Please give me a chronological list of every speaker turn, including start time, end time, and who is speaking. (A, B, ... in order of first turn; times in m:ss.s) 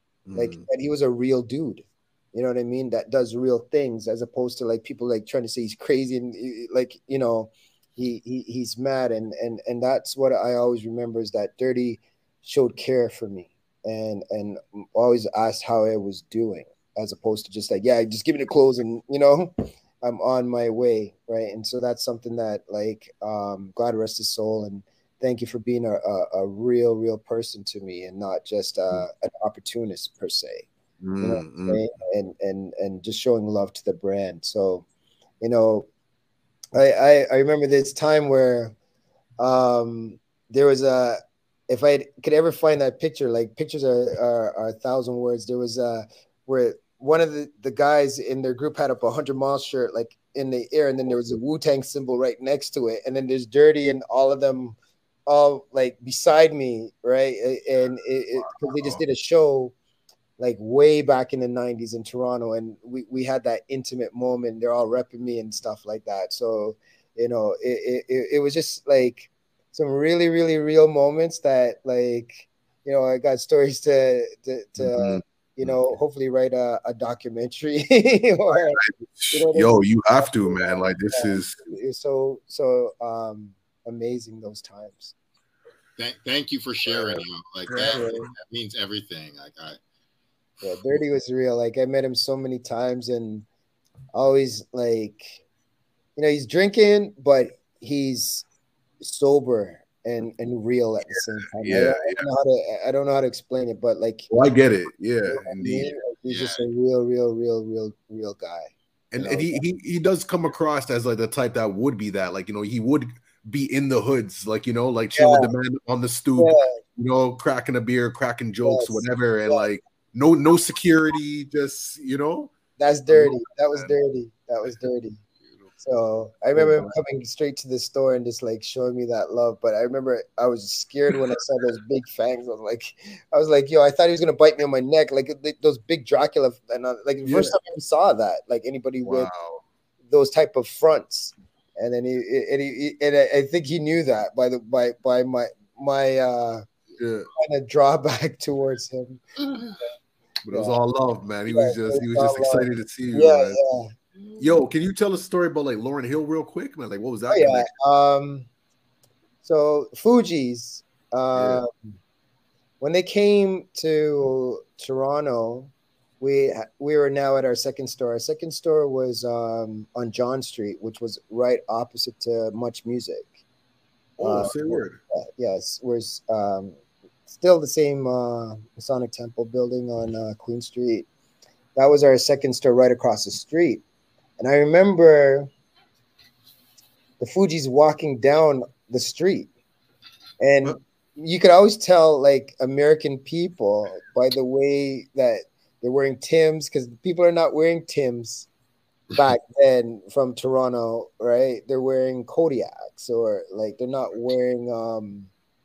0:00.3-0:00.7 A
0:00.4-0:30.7 B
0:31.0-0:31.8 A
0:31.2-0:34.8 B
0:35.4-0:35.9 B
0:36.8-0:38.8 B
0:39.4-0:59.7 B
0:58.4-0:59.0 A
1:00.4-1:18.8 B
1:14.8-1:15.8 A
1:18.8-1:21.6 A
1:19.3-1:25.1 B
1:26.0-1:29.8 C
1:27.7-1:28.2 A
1:27.8-1:28.3 B
1:30.6-1:33.5 B
1:34.1-1:35.4 B
1:36.2-1:38.4 B
1:39.0-1:44.3 B
1:41.2-1:42.3 A
1:44.3-1:45.9 A
1:45.3-1:49.6 B
1:46.3-1:46.7 C
1:49.1-2:02.6 A
1:55.2-1:55.5 B
1:56.4-1:56.8 B
1:58.6-1:59.7 B
2:02.8-2:05.2 B
2:03.1-2:04.0 A
2:05.8-2:19.3 B
2:06.6-2:06.9 A
2:17.2-2:17.5 A
2:19.0-2:19.6 A
2:20.1-2:26.6 B
2:27.0-2:27.3 A
2:27.4-2:29.2 B
2:29.4-2:29.8 C
2:30.4-2:33.6 A
2:30.5-2:30.8 B
2:31.5-2:33.9 B
2:34.2-2:34.5 C
2:34.4-2:37.7 A
2:37.3-2:38.5 B
2:39.4-2:42.0 B
2:41.4-2:41.6 A
2:42.8-2:53.4 B
2:54.2-2:55.0 A
2:54.2-2:56.8 B
2:57.3-3:01.1 B
3:01.8-3:03.8 B
3:04.4-3:05.5 B
3:07.2-3:09.5 B
3:10.4-3:18.5 B
3:19.2-3:25.3 B